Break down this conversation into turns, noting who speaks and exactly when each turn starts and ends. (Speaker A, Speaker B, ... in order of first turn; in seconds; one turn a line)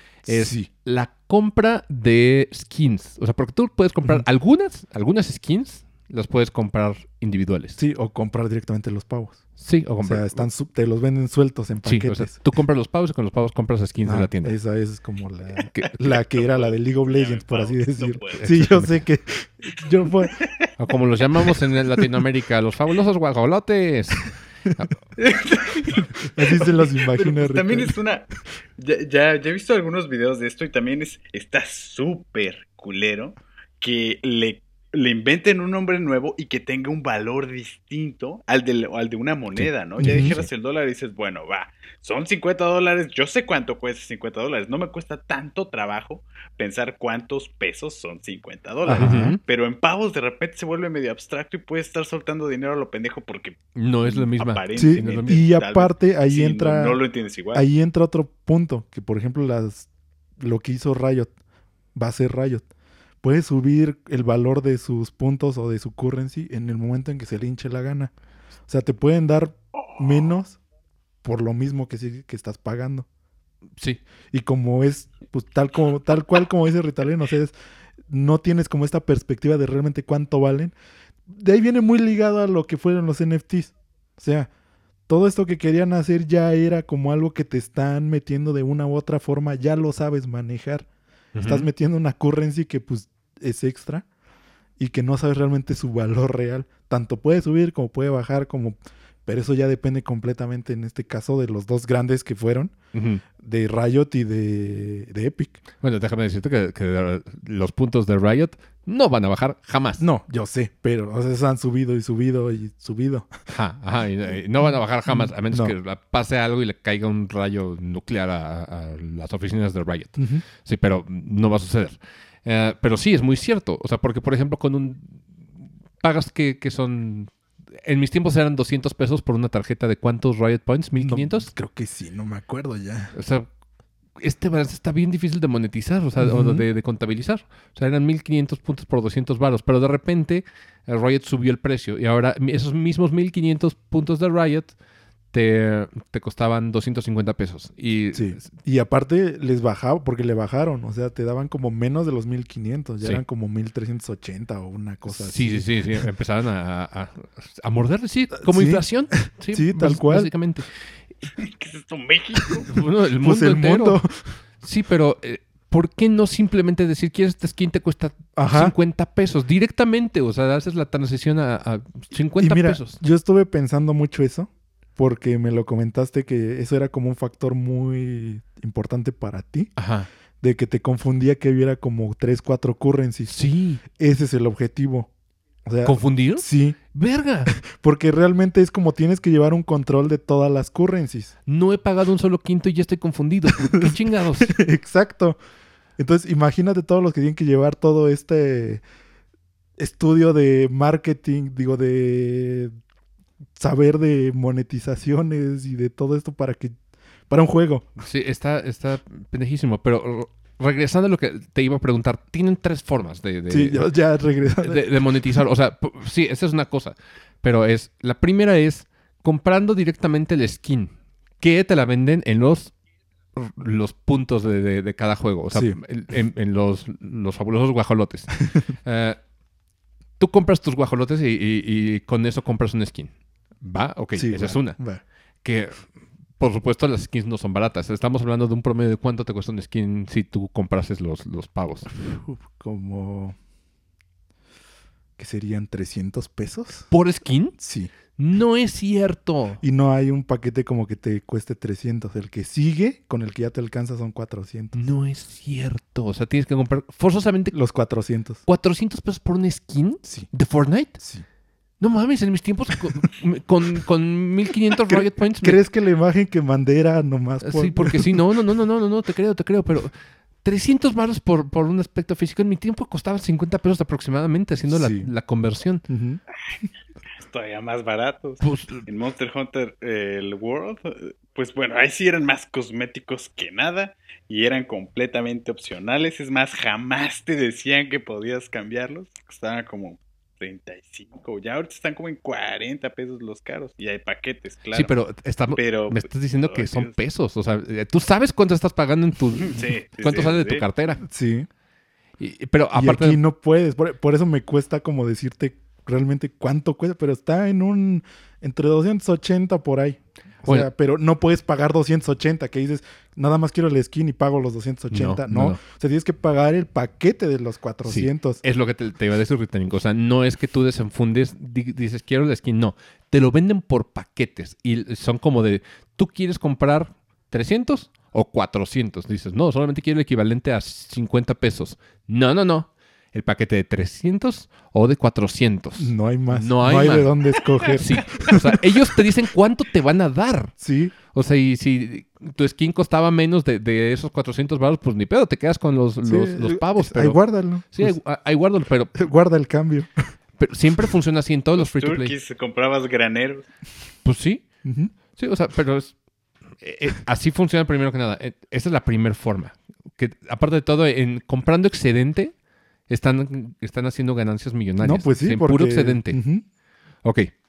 Speaker A: 0.2-7.8
Speaker B: 0.2-0.7
Speaker B: 7.8-9.4
Speaker A: 9.6-10.4
Speaker B: 10.0-12.4
Speaker A: 11.8-14.5
Speaker B: 14.0-20.4
Speaker A: 15.6-16.2
Speaker C: 16.3-18.5
Speaker A: 18.4-19.0
Speaker C: 20.1-20.7
Speaker A: 20.8-24.9
Speaker C: 25.2-57.6
Speaker B: 26.2-27.9
Speaker A: 39.6-40.4
Speaker B: 40.0-40.3
Speaker B: 48.8-49.3
Speaker A: 48.9-49.4
Speaker A: 53.7-55.4
Speaker B: 54.7-57.0
Speaker B: 57.5-61.3
Speaker B: 61.9-62.6
Speaker B: 63.2-68.1
Speaker B: 68.7-70.6
Speaker C: 69.8-70.1
Speaker B: 71.2-73.1
Speaker B: 74.3-77.5
Speaker B: 78.1-80.7
Speaker B: 81.3-84.5
Speaker B: 85.1-90.9
Speaker A: 91.3-91.7
Speaker B: 91.4-94.0
Speaker B: 94.8-102.7
Speaker A: 102.9-103.2
Speaker B: 103.4-105.6
Speaker A: 105.8-110.0
Speaker B: 110.0-113.3
Speaker A: 113.5-125.2
Speaker B: 115.1-115.7
Speaker B: 120.2-120.4
Speaker A: 126.0-131.5
Speaker B: 131.0-133.1
Speaker A: 133.1-133.5
Speaker A: 134.2-144.8
Speaker B: 136.2-136.7
Speaker A: 145.3-148.5
Speaker B: 148.1-156.0
Speaker A: 155.1-160.7
Speaker B: 158.4-160.3
Speaker C: 161.3-162.7
Speaker A: 162.7-164.0
Speaker B: 163.2-164.4
Speaker A: 164.6-173.0
Speaker B: 168.3-168.7
Speaker B: 172.4-179.7
Speaker A: 179.8-180.1
Speaker B: 180.4-185.1
Speaker A: 183.3-183.8
Speaker B: 185.7-186.8
Speaker A: 185.8-187.5
Speaker B: 187.4-191.3
Speaker A: 191.4-194.5
Speaker B: 193.5-195.4
Speaker B: 196.0-198.8
Speaker B: 199.8-202.7
Speaker B: 203.6-206.7
Speaker B: 207.3-207.9
Speaker A: 208.0-213.9
Speaker B: 213.5-214.8
Speaker A: 214.6-222.7
Speaker A: 223.3-229.2
Speaker B: 225.5-225.8
Speaker A: 230.2-234.8
Speaker B: 234.2-235.0
Speaker A: 235.4-241.9
Speaker B: 241.9-243.4
Speaker B: 245.2-246.9
Speaker A: 246.9-247.6
Speaker B: 247.6-247.9
Speaker A: 248.1-249.6
Speaker B: 249.6-254.8
Speaker A: 254.7-257.5
Speaker B: 257.5-258.4
Speaker A: 258.4-261.0
Speaker B: 260.0-260.3
Speaker B: 261.0-261.2
Speaker A: 261.8-265.6
Speaker B: 264.9-268.2
Speaker A: 267.4-275.8
Speaker B: 274.7-275.1
Speaker B: 275.9-276.2
Speaker C: 277.1-294.9
Speaker A: 278.4-278.8
Speaker A: 294.7-301.0
Speaker C: 295.6-296.9
Speaker C: 299.4-300.6
Speaker B: 301.0-301.5
Speaker A: 302.2-303.2
Speaker B: 302.7-318.4
Speaker A: 310.4-310.7
Speaker A: 314.9-315.6
Speaker A: 317.8-337.1
Speaker B: 335.8-338.6
Speaker A: 337.8-340.5
Speaker B: 340.6-340.9
Speaker A: 341.1-347.2
Speaker B: 346.0-348.0
Speaker A: 347.7-349.1
Speaker B: 348.9-349.9
Speaker A: 350.4-352.1
Speaker C: 351.6-353.5
Speaker A: 354.0-354.4
Speaker B: 354.6-354.9
Speaker A: 355.1-355.9
Speaker A: 356.6-362.3
Speaker A: 362.9-366.2
Speaker B: 364.8-366.4
Speaker A: 367.0-367.3